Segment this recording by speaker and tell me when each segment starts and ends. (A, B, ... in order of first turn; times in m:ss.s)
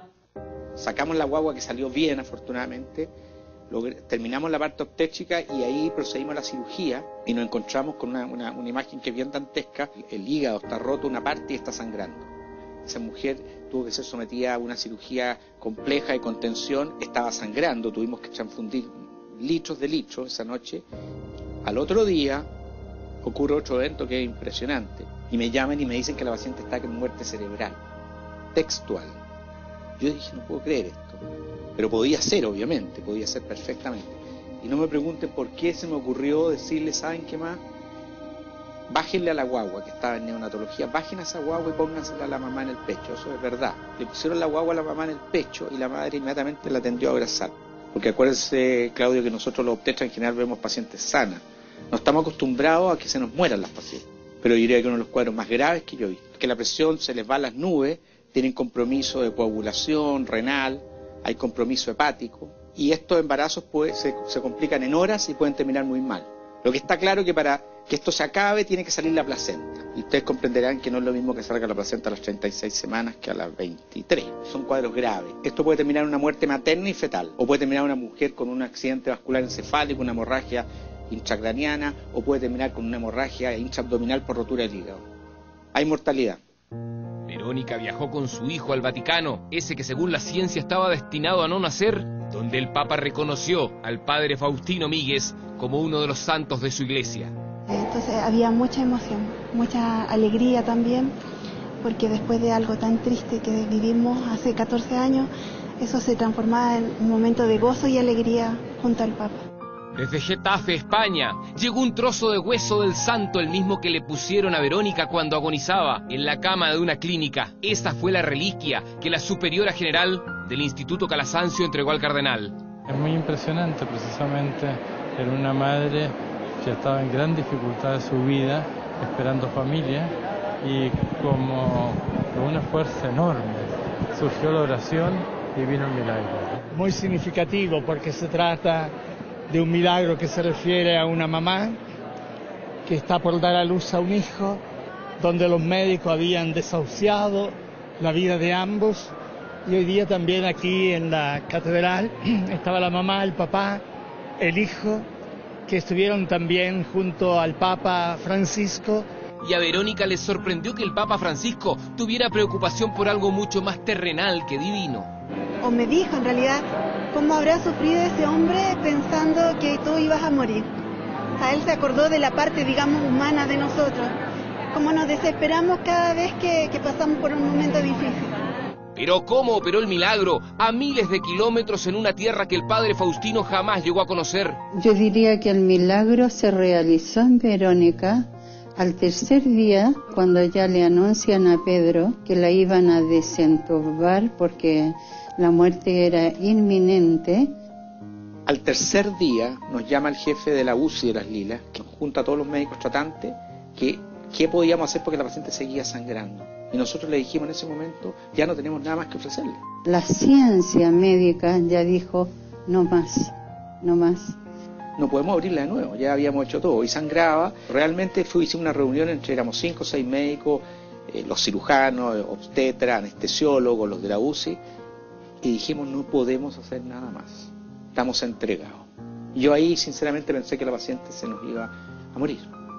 0:00.8-0:03.1 A
0:03.7-0:12.3 A
0:12.8-0:20.8 A
0:21.6-0:22.5 A
0:23.2-0:27.8 A
0:28.5-0:29.2 A
0:30.0-0:31.2 A
0:31.8-0:37.6 A
0:38.9-1:25.0 A
1:25.7-1:26.4 A
1:27.3-1:37.3 B
1:37.7-1:41.1 C
1:41.8-1:49.4 C
1:49.9-2:02.6 B
2:02.9-2:16.6 D
2:16.7-2:18.9 E
2:19.5-2:21.8 E
2:22.8-2:24.6 E
2:25.2-2:33.8 E
2:34.4-2:35.1 E
2:35.7-2:39.1 E
2:39.4-2:45.1 B
2:45.6-2:50.7 C
2:51.4-2:54.1 C
2:54.7-2:58.3 C
2:59.0-3:04.6 B
3:04.7-3:08.2 F
3:08.8-3:17.5 F
3:18.5-3:29.6 A
3:29.8-3:34.4 F
3:35.0-3:44.6 A
3:45.4-3:52.5 A